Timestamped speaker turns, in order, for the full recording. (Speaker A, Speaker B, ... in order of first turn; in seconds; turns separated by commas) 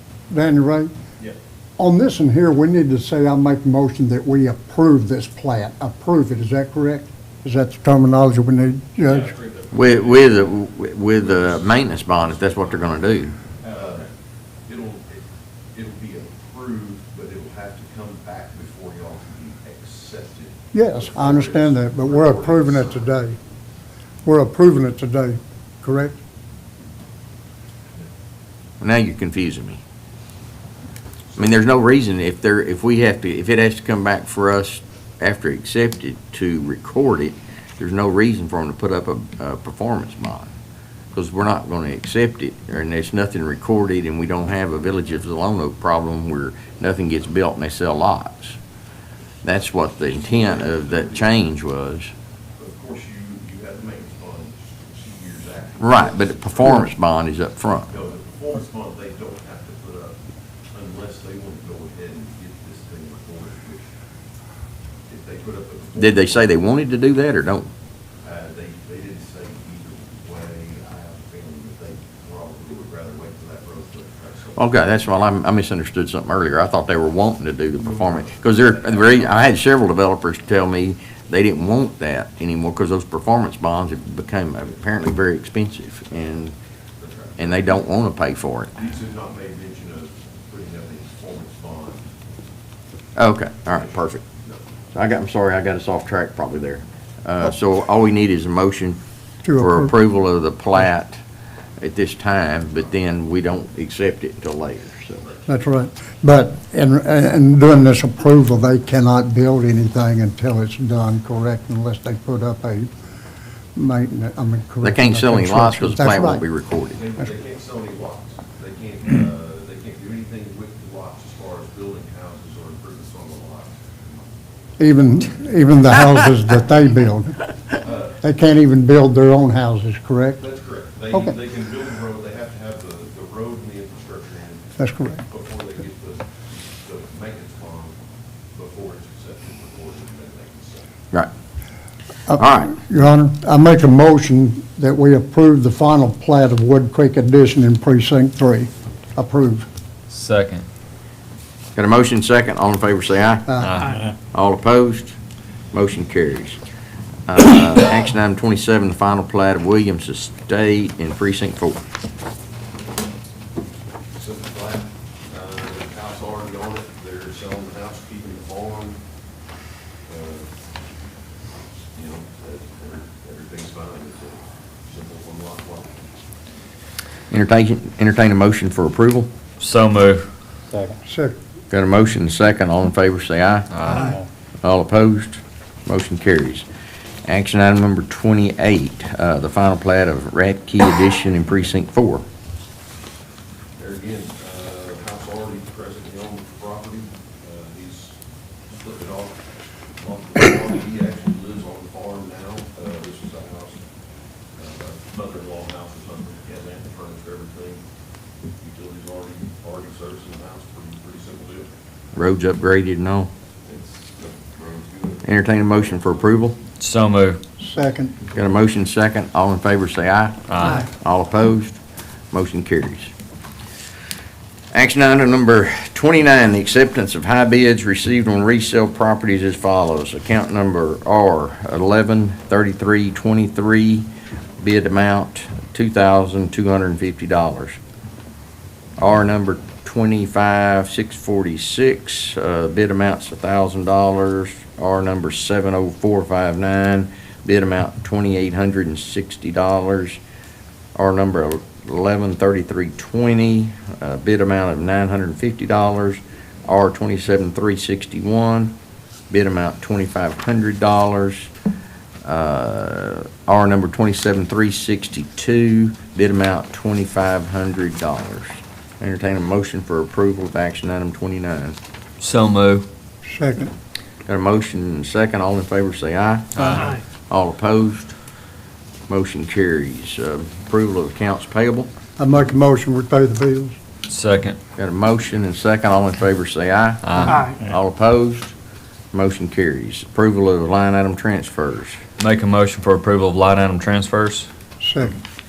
Speaker A: 0.3-0.9, Speaker A: 1.8-9.3, Speaker B: 9.2-10.0, Speaker C: 9.7-13.4, Speaker B: 11.2-12.9, Speaker B: 13.6-14.1, Speaker B: 14.7-15.2, Speaker B: 15.7-23.1, Speaker A: 20.7-23.4, Speaker A: 24.2-26.2, Speaker C: 28.8-29.8, Speaker C: 31.4-40.5, Speaker C: 41.1-48.6, Speaker C: 49.4-52.1, Speaker B: 49.9-51.3, Speaker B: 52.6-56.8, Speaker C: 55.8-57.9, Speaker B: 57.9-60.1, Speaker B: 60.7-63.8, Speaker B: 65.1-66.5, Speaker C: 66.0-67.7, Speaker B: 68.2-74.7, Speaker C: 74.5-86.5, Speaker B: 77.8-79.3, Speaker B: 87.0-87.8, Speaker C: 87.4-88.7, Speaker B: 88.8-92.0, Speaker C: 93.2-94.2, Speaker B: 93.8-94.6, Speaker C: 94.9-99.0, Speaker A: 99.4-99.9, Speaker C: 99.6-101.2, Speaker C: 101.8-105.2, Speaker B: 105.2-105.5, Speaker A: 105.5-112.9, Speaker A: 113.7-116.4, Speaker C: 114.8-117.0, Speaker B: 116.9-124.4, Speaker A: 124.8-127.5, Speaker B: 127.8-128.2, Speaker A: 128.2-130.4, Speaker B: 130.4-137.9, Speaker A: 134.8-135.2, Speaker B: 138.5-140.9, Speaker A: 142.3-149.7, Speaker C: 142.4-142.7, Speaker D: 150.1-150.6, Speaker C: 151.8-153.5, Speaker D: 153.6-154.0, Speaker C: 154.3-155.2, Speaker C: 155.7-156.6, Speaker C: 157.3-161.8, Speaker B: 164.2-169.0, Speaker B: 170.1-170.5, Speaker B: 171.9-175.9, Speaker C: 177.3-179.3, Speaker D: 179.6-180.3, Speaker A: 181.0-181.4, Speaker C: 181.7-183.7, Speaker D: 183.7-184.2, Speaker C: 184.6-186.7, Speaker C: 187.2-192.2, Speaker B: 193.8-198.2, Speaker B: 198.7-199.4, Speaker B: 200.0-203.8, Speaker B: 204.6-207.8, Speaker B: 208.6-211.7, Speaker C: 212.2-213.3, Speaker B: 213.7-216.2, Speaker C: 215.2-216.6, Speaker D: 216.8-217.4, Speaker A: 217.6-218.1, Speaker C: 218.3-221.8, Speaker D: 220.5-220.8, Speaker C: 222.3-223.1, Speaker C: 224.7-234.1, Speaker C: 234.6-237.8, Speaker C: 239.0-250.2, Speaker C: 250.9-258.8, Speaker C: 259.3-261.5, Speaker C: 262.2-268.5, Speaker C: 269.0-271.8, Speaker D: 272.2-272.9, Speaker A: 273.2-273.7, Speaker C: 274.2-278.1, Speaker D: 276.6-276.9, Speaker C: 279.1-281.9, Speaker A: 282.2-283.8, Speaker D: 284.1-284.6, Speaker C: 284.8-288.5, Speaker D: 287.0-287.5, Speaker C: 289.1-292.0, Speaker D: 292.2-294.5, Speaker A: 294.8-295.1